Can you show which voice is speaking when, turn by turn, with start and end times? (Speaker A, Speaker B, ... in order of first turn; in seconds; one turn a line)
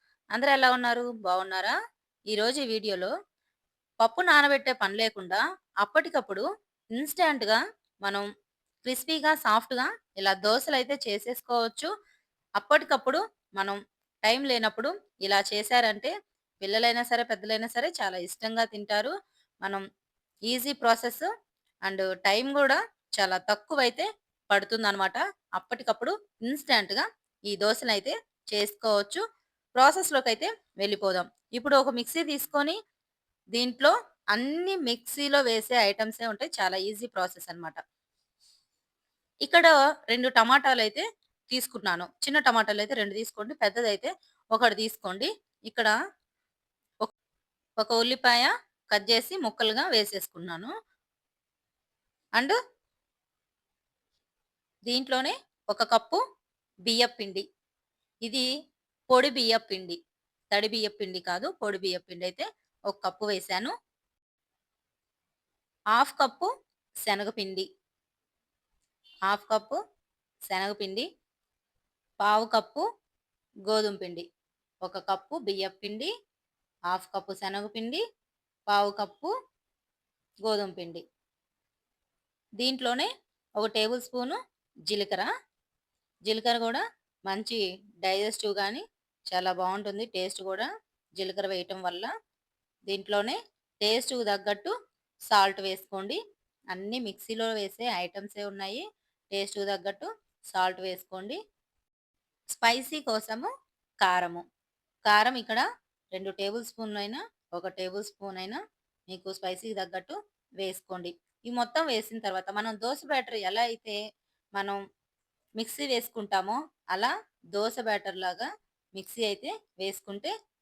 Speaker A: 0.3-1.7
Speaker A: 2.3-3.1
Speaker A: 4.0-6.4
Speaker A: 7.0-8.2
Speaker A: 8.8-11.9
Speaker A: 12.6-19.8
Speaker A: 20.5-21.3
Speaker A: 21.9-29.2
Speaker A: 29.8-32.8
Speaker A: 33.5-37.8
Speaker A: 39.5-45.9
Speaker A: 47.8-50.7
Speaker A: 54.9-56.2
Speaker A: 56.9-57.4
Speaker A: 59.1-60.0
Speaker A: 60.5-63.7
Speaker A: 66.0-66.5
Speaker A: 67.0-67.7
Speaker A: 69.3-69.8
Speaker A: 70.5-71.0
Speaker A: 72.2-72.8
Speaker A: 73.7-74.2
Speaker A: 74.8-76.1
Speaker A: 76.9-78.0
Speaker A: 78.7-79.3
Speaker A: 80.5-81.0
Speaker A: 82.6-84.4
Speaker A: 84.9-85.3
Speaker A: 86.3-92.1
Speaker A: 92.9-94.7
Speaker A: 95.3-96.2
Speaker A: 96.7-101.4
Speaker A: 102.5-103.5
Speaker A: 104.0-104.4
Speaker A: 105.1-105.6
Speaker A: 106.1-108.6
Speaker A: 109.1-114.0
Speaker A: 115.6-118.5
Speaker A: 119.0-120.3